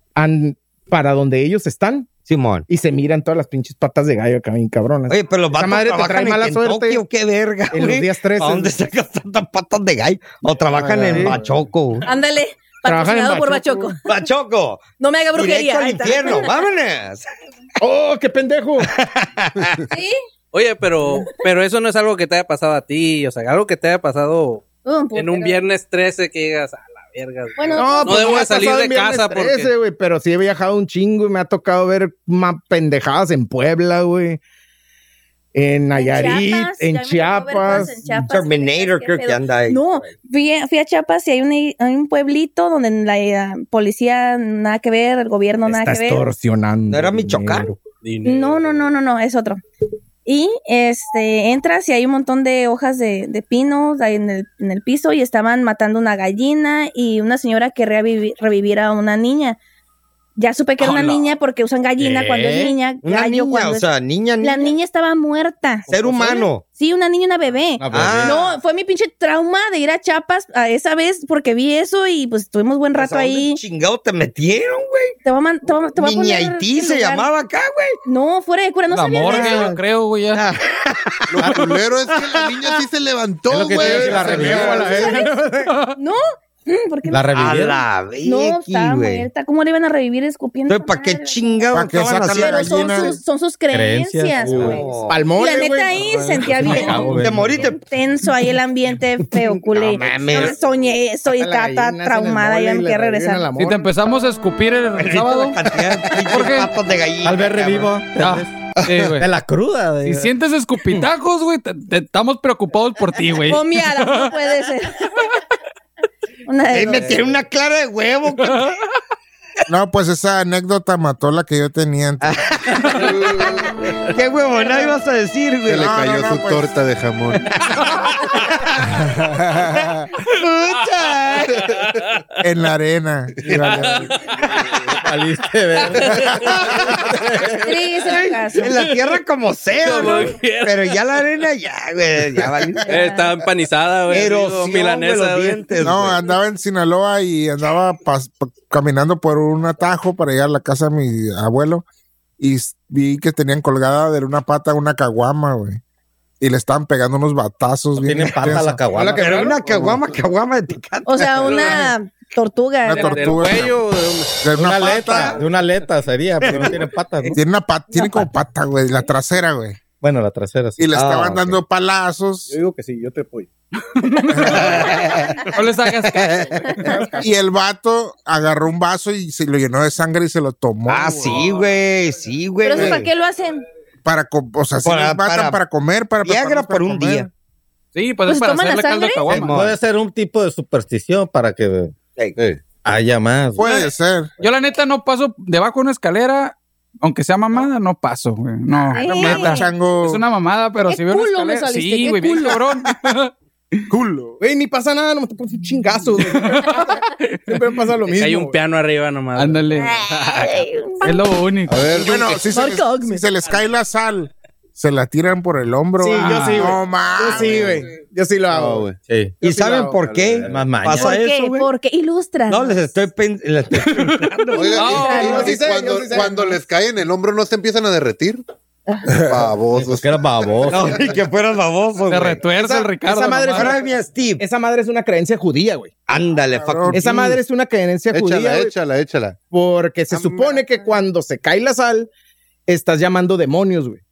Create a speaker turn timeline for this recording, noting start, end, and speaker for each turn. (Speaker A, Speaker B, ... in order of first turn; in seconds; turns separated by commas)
Speaker A: 0.2-2.1, Speaker B: 2.3-2.7, Speaker A: 2.7-7.0, Speaker B: 5.1-12.1, Speaker A: 7.7-8.8, Speaker A: 10.9-11.4, Speaker C: 12.1-14.0, Speaker A: 12.9-14.0, Speaker B: 14.1-14.8, Speaker C: 15.0-16.6, Speaker B: 15.3-17.3, Speaker A: 17.8-18.9, Speaker B: 18.8-19.8, Speaker C: 19.9-20.2, Speaker D: 20.5-29.7, Speaker C: 24.9-25.6, Speaker C: 27.6-28.6, Speaker A: 27.7-34.4, Speaker A: 35.5-38.1, Speaker C: 36.0-46.2, Speaker B: 38.1-40.1, Speaker A: 45.7-47.8, Speaker B: 46.9-47.7, Speaker D: 48.0-48.8, Speaker C: 48.2-49.6, Speaker C: 50.3-59.6, Speaker C: 60.4-63.9, Speaker D: 60.8-61.2, Speaker E: 62.0-62.8, Speaker B: 63.0-64.8, Speaker C: 64.4-73.6, Speaker B: 65.9-66.6, Speaker E: 67.8-68.4, Speaker B: 67.9-68.5, Speaker B: 73.0-75.2, Speaker C: 75.2-77.3, Speaker B: 76.0-78.0, Speaker C: 78.1-79.7, Speaker F: 78.9-80.4, Speaker B: 79.2-79.8, Speaker B: 80.3-82.8, Speaker G: 81.3-85.0, Speaker E: 83.5-85.2, Speaker A: 83.7-85.7, Speaker B: 84.0-84.7, Speaker C: 84.9-85.3, Speaker C: 86.0-87.5, Speaker E: 87.1-87.8, Speaker B: 87.3-89.3, Speaker C: 88.2-103.5, Speaker B: 90.7-93.2, Speaker H: 91.7-93.2, Speaker E: 93.7-94.8, Speaker B: 94.4-95.2, Speaker A: 95.1-96.0, Speaker E: 96.0-97.6, Speaker B: 96.7-97.8, Speaker B: 99.5-100.6, Speaker A: 100.2-100.5, Speaker A: 101.3-103.8, Speaker F: 103.6-105.6, Speaker B: 104.9-107.9, Speaker F: 106.2-106.7, Speaker E: 107.2-110.3, Speaker F: 108.2-109.3, Speaker F: 110.0-114.3, Speaker C: 113.5-115.3, Speaker C: 116.5-117.2, Speaker B: 116.7-118.8, Speaker H: 119.7-122.3, Speaker B: 122.2-123.5, Speaker G: 122.9-123.8, Speaker B: 124.1-125.9, Speaker G: 125.7-127.5, Speaker H: 125.7-126.7, Speaker H: 129.2-129.9, Speaker B: 130.2-131.6, Speaker D: 131.5-132.4, Speaker H: 132.4-134.1, Speaker D: 133.5-134.8, Speaker E: 135.0-137.7, Speaker D: 135.9-137.0, Speaker C: 137.6-138.7, Speaker B: 138.6-142.9, Speaker D: 139.8-141.0, Speaker C: 142.8-143.3, Speaker D: 142.9-145.8, Speaker B: 144.1-146.2, Speaker H: 145.8-151.8, Speaker H: 152.4-155.8, Speaker H: 156.4-159.9, Speaker E: 158.0-160.0, Speaker B: 159.2-161.8, Speaker C: 161.1-163.4, Speaker D: 161.4-161.9, Speaker H: 162.9-163.8, Speaker D: 162.9-164.4, Speaker H: 164.4-165.4, Speaker E: 164.5-167.4, Speaker B: 164.9-165.4, Speaker B: 166.4-166.8, Speaker H: 167.3-169.8, Speaker E: 170.0-170.9, Speaker H: 170.8-172.6, Speaker B: 170.9-171.6, Speaker A: 172.5-173.5, Speaker F: 173.9-174.8, Speaker G: 174.7-175.1, Speaker F: 175.5-177.0, Speaker B: 176.2-176.5, Speaker A: 176.8-177.3, Speaker H: 177.2-181.5, Speaker B: 180.9-183.1, Speaker D: 181.3-181.6, Speaker C: 182.6-183.6, Speaker H: 184.1-187.3, Speaker B: 184.8-185.6, Speaker B: 186.2-187.3, Speaker F: 187.9-189.6, Speaker C: 188.3-189.3, Speaker B: 189.3-189.8, Speaker E: 189.4-191.9, Speaker E: 192.8-193.7, Speaker H: 193.6-194.3, Speaker F: 194.4-203.3, Speaker C: 198.9-199.7, Speaker H: 199.1-200.2, Speaker C: 200.9-202.7, Speaker H: 203.9-204.4, Speaker A: 204.4-208.6, Speaker F: 206.2-206.9, Speaker D: 208.1-209.8, Speaker F: 209.4-210.1, Speaker C: 209.8-211.2, Speaker F: 211.0-212.0, Speaker G: 211.7-212.4, Speaker H: 212.0-217.7, Speaker C: 212.5-213.2, Speaker A: 216.0-218.9, Speaker F: 216.2-216.8, Speaker G: 217.4-217.8, Speaker G: 218.5-219.0, Speaker E: 219.1-219.4, Speaker B: 219.4-221.7, Speaker A: 219.4-219.9, Speaker G: 220.1-220.6, Speaker E: 220.4-221.4, Speaker C: 220.9-222.8, Speaker B: 222.5-225.0, Speaker C: 224.5-225.6, Speaker G: 224.5-228.4, Speaker F: 224.8-225.3, Speaker A: 225.1-226.6, Speaker G: 229.2-231.1, Speaker E: 229.7-231.2, Speaker B: 230.7-232.5, Speaker F: 232.1-233.8, Speaker A: 232.5-233.8, Speaker B: 233.5-234.4, Speaker A: 234.4-235.9, Speaker B: 236.1-237.3, Speaker H: 236.6-237.0, Speaker A: 236.9-238.7, Speaker G: 238.1-239.4, Speaker A: 239.5-242.1, Speaker G: 240.1-240.7, Speaker A: 242.7-244.0